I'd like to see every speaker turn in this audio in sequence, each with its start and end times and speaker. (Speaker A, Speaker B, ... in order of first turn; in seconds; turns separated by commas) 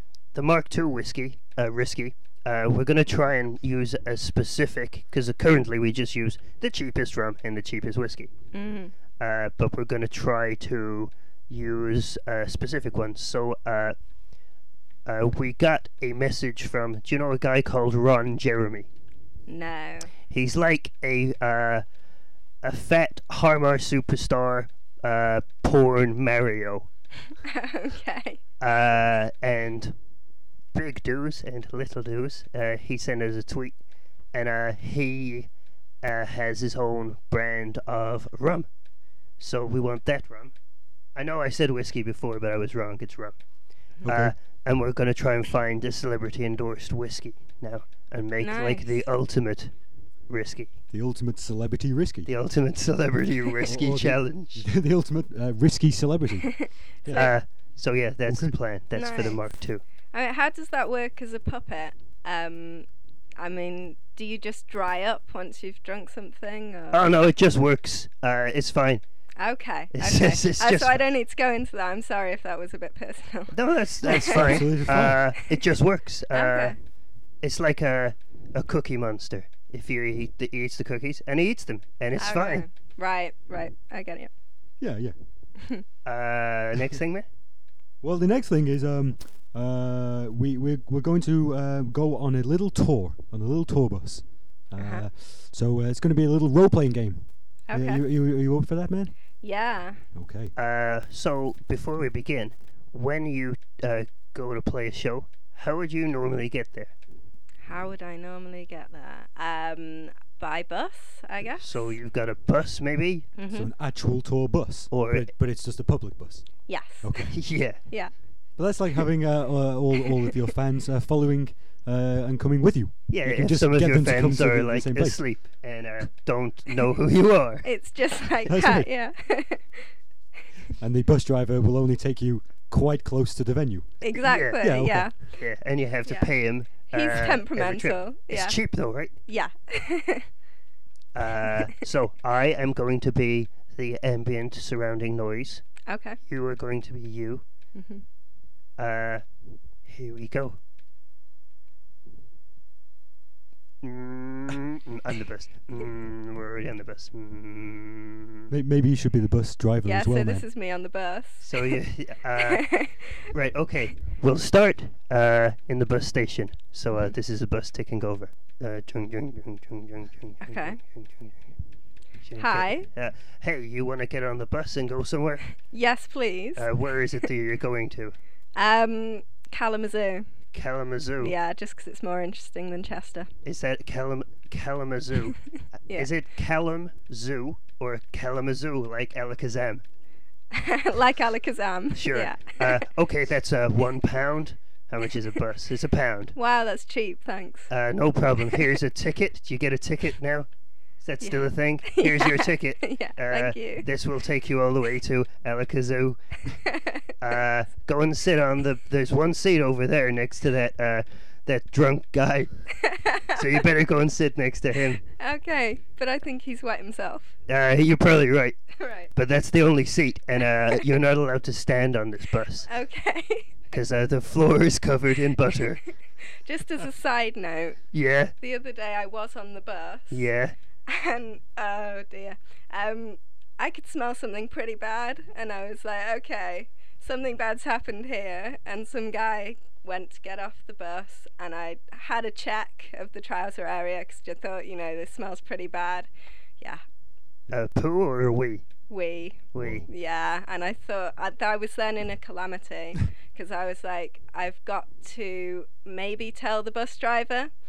Speaker A: 0.3-8.3, Speaker B: 8.5-8.9, Speaker A: 9.2-13.9, Speaker A: 15.1-18.9, Speaker B: 19.5-20.1, Speaker A: 20.3-21.8, Speaker A: 22.6-26.9, Speaker B: 27.4-28.4, Speaker A: 28.6-29.9, Speaker A: 30.7-33.8, Speaker A: 34.3-35.5, Speaker A: 36.0-38.7, Speaker A: 39.4-40.5, Speaker A: 41.2-43.4, Speaker C: 44.0-44.3, Speaker A: 44.0-49.7, Speaker B: 48.4-49.0, Speaker A: 50.3-50.7, Speaker C: 50.9-52.3, Speaker A: 52.3-54.6, Speaker C: 53.7-57.3, Speaker B: 56.4-57.4, Speaker A: 57.1-59.8, Speaker C: 58.3-58.5, Speaker B: 59.0-59.4, Speaker B: 60.1-62.9, Speaker B: 63.4-67.1, Speaker A: 66.9-69.0, Speaker B: 69.4-74.7, Speaker A: 69.9-71.0, Speaker A: 73.5-76.8, Speaker C: 74.1-75.3, Speaker B: 76.3-76.8, Speaker A: 77.4-82.7, Speaker B: 82.2-84.3, Speaker C: 84.8-85.1, Speaker B: 85.6-85.8, Speaker A: 86.0-87.3, Speaker C: 88.0-99.1, Speaker B: 94.8-95.1, Speaker B: 97.7-98.0, Speaker B: 99.4-100.0, Speaker C: 100.1-100.5, Speaker A: 100.6-106.9, Speaker B: 107.7-111.9, Speaker A: 111.6-113.3, Speaker B: 113.4-113.7, Speaker C: 113.5-116.5, Speaker A: 114.9-115.3, Speaker B: 116.7-117.3, Speaker C: 117.0-117.4, Speaker A: 117.3-117.8, Speaker C: 118.6-125.2, Speaker B: 120.1-120.3, Speaker A: 123.1-127.7, Speaker B: 127.6-129.9, Speaker C: 128.5-128.9, Speaker C: 130.8-134.0, Speaker B: 134.0-135.1, Speaker A: 134.2-134.6, Speaker C: 134.6-135.1, Speaker A: 135.3-139.1, Speaker B: 136.9-138.6, Speaker B: 139.3-140.3, Speaker A: 141.2-145.6, Speaker B: 145.9-146.2, Speaker A: 146.3-147.4, Speaker B: 147.8-148.0, Speaker A: 148.8-149.2, Speaker A: 149.9-150.6, Speaker A: 153.8-158.5, Speaker C: 158.5-160.4, Speaker B: 159.8-161.8, Speaker A: 161.4-162.7, Speaker B: 162.4-163.2, Speaker A: 163.3-171.4, Speaker B: 170.4-170.8, Speaker A: 172.2-175.5, Speaker B: 172.4-172.9, Speaker B: 175.7-176.7, Speaker A: 176.6-178.2, Speaker B: 178.6-180.3, Speaker A: 180.5-181.3, Speaker B: 181.2-183.3, Speaker A: 183.4-185.4, Speaker A: 185.9-189.8, Speaker B: 190.5-192.8, Speaker A: 191.9-196.3, Speaker B: 196.3-197.7, Speaker A: 197.7-200.5, Speaker A: 201.0-206.2, Speaker B: 201.2-203.9, Speaker B: 206.5-207.1, Speaker A: 207.2-212.5, Speaker B: 212.8-213.4, Speaker A: 213.3-215.0, Speaker B: 215.2-217.3, Speaker A: 217.5-222.7, Speaker B: 218.8-219.1, Speaker B: 222.7-223.6, Speaker A: 223.7-225.8, Speaker B: 226.4-227.8, Speaker A: 227.9-228.3, Speaker B: 228.4-230.2, Speaker A: 230.1-230.6, Speaker B: 230.9-246.8, Speaker A: 247.5-248.7, Speaker B: 248.9-257.5, Speaker A: 249.5-249.9, Speaker C: 249.6-249.9